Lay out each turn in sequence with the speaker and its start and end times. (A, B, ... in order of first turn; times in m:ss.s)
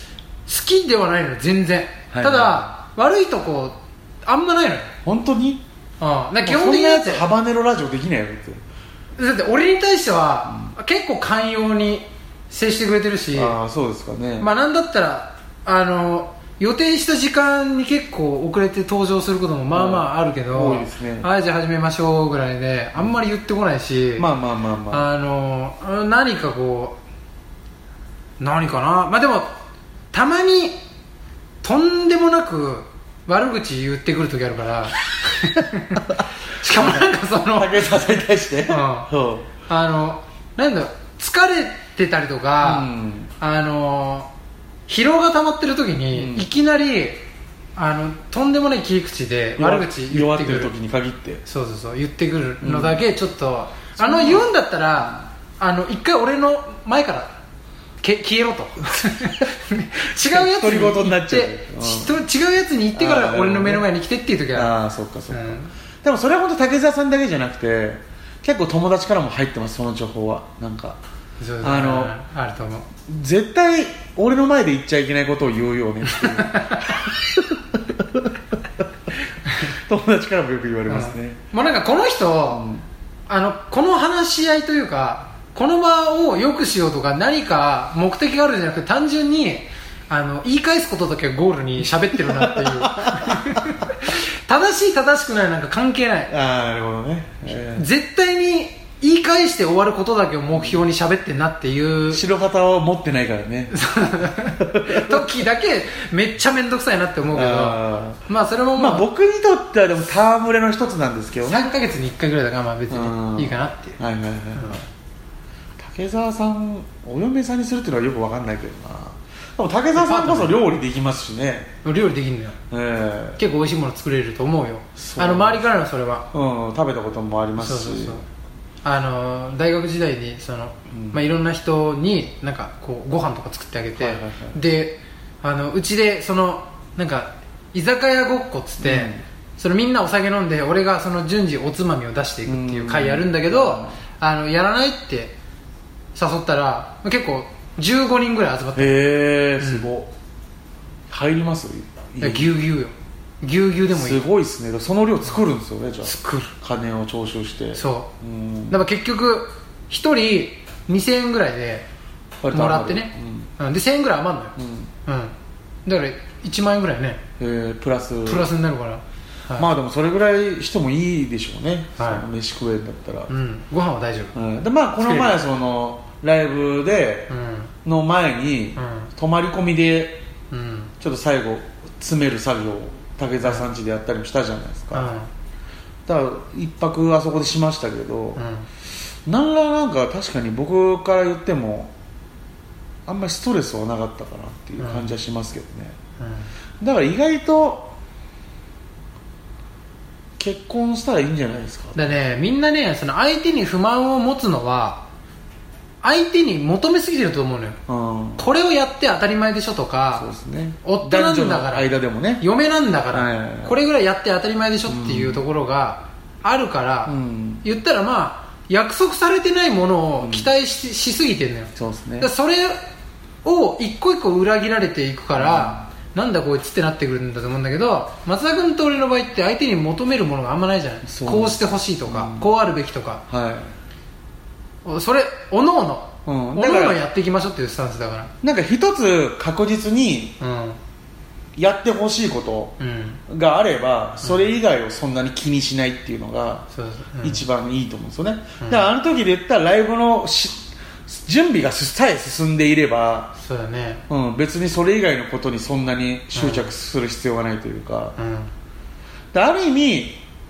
0:00.5-0:04.9 A
0:02.1-0:02.7 B
0:05.0-0:05.6 B
0:06.0-0:07.3 A
0:06.4-0:08.6 B
0:09.2-0:13.6 A
0:13.4-0:14.5 B
0:14.4-0:24.3 A
0:19.7-0:21.3 B
0:24.2-0:25.1 B
0:24.9-0:27.0 A
0:28.4-0:29.6 A
0:30.1-0:30.8 A
0:31.6-0:37.9 A
0:36.8-0:39.5 B
0:38.7-0:39.1 A
0:39.6-0:42.9 A
0:42.6-0:43.3 B
0:43.4-0:44.3 A
0:44.9-0:47.2 A
0:46.1-0:46.5 B
0:47.8-0:50.7 A
0:49.6-0:51.4 B
0:51.4-0:57.3 A
0:52.6-0:53.0 B
0:54.0-0:54.5 B
0:58.0-1:04.7 A
1:00.1-1:02.2 B
1:02.9-1:03.9 B
1:04.5-1:11.0 B
1:05.3-1:05.7 A
1:11.4-1:12.9 A
1:11.6-1:12.2 B
1:13.1-1:18.4 B
1:16.1-1:17.0 A
1:19.6-1:21.4 B
1:20.9-1:22.7 A
1:22.5-1:22.8 B
1:23.3-1:36.3 A
1:31.8-1:33.8 B
1:36.3-1:37.9 B
1:37.7-1:42.2 A
1:40.5-1:40.8 B
1:42.1-1:43.8 B
1:43.7-1:49.1 A
1:44.6-1:45.3 B
1:47.3-1:48.2 B
1:48.8-1:51.7 B
1:51.4-1:54.0 A
1:52.9-1:54.8 B
1:54.6-1:54.8 A
1:55.8-2:01.7 B
2:00.0-2:00.6 A
2:01.8-2:02.6 A
2:02.7-2:03.4 B
2:03.4-2:06.3 A
2:05.0-2:05.6 B
2:06.3-2:08.2 B
2:07.6-2:08.2 A
2:08.8-2:25.3 A
2:10.9-2:11.2 B
2:14.0-2:14.6 B
2:18.8-2:19.2 B
2:22.4-2:23.9 B
2:26.1-2:29.0 A
2:28.8-2:30.1 B
2:29.6-2:29.9 A
2:31.1-2:32.5 B
2:32.2-2:34.2 A
2:33.9-2:38.8 B
2:36.0-2:36.5 A
2:37.8-2:38.1 A
2:38.7-2:41.8 A
2:42.4-2:43.5 B
2:42.5-2:47.2 A
2:44.6-2:44.9 B
2:47.4-2:48.5 B
2:48.3-2:49.6 A
2:49.6-2:53.3 B
2:52.0-2:52.2 A
2:53.3-2:54.4 A
2:54.4-2:57.3 B
2:55.0-2:55.3 A
2:57.3-2:57.7 A
2:57.8-3:00.2 B
2:58.8-2:59.1 A
3:00.5-3:00.9 A
3:01.0-3:05.1 B
3:04.9-3:05.3 A
3:06.1-3:08.4 B
3:08.4-3:08.7 A
3:09.3-3:11.9 B
3:13.1-3:16.0 B
3:14.8-3:15.1 A
3:16.2-3:16.5 A
3:16.8-3:17.9 B
3:20.4-3:22.0 B
3:21.9-3:25.0 A
3:26.0-3:27.8 A
3:27.9-3:28.5 B
3:28.4-3:30.3 A
3:30.1-3:32.4 B
3:30.8-3:42.8 A
3:33.1-3:33.8 B
3:34.9-3:35.4 B
3:37.1-3:37.6 B
3:40.2-3:40.5 B
3:41.8-3:42.3 B
3:43.4-3:53.2 A
3:45.4-3:45.9 B
3:51.0-3:52.5 B
3:53.3-3:53.7 B
3:54.8-3:58.3 A
3:56.3-3:57.0 B
3:58.4-4:00.4 B
4:00.4-4:00.8 A
4:01.6-4:02.8 B
4:02.8-4:03.2 A
4:03.3-4:06.6 B
4:04.2-4:04.5 A
4:06.7-4:07.4 A
4:07.2-4:13.3 B
4:08.6-4:08.9 A
4:13.4-4:14.0 A
4:14.1-4:18.1 B
4:16.4-4:16.7 A
4:18.2-4:18.5 A
4:19.3-4:20.2 B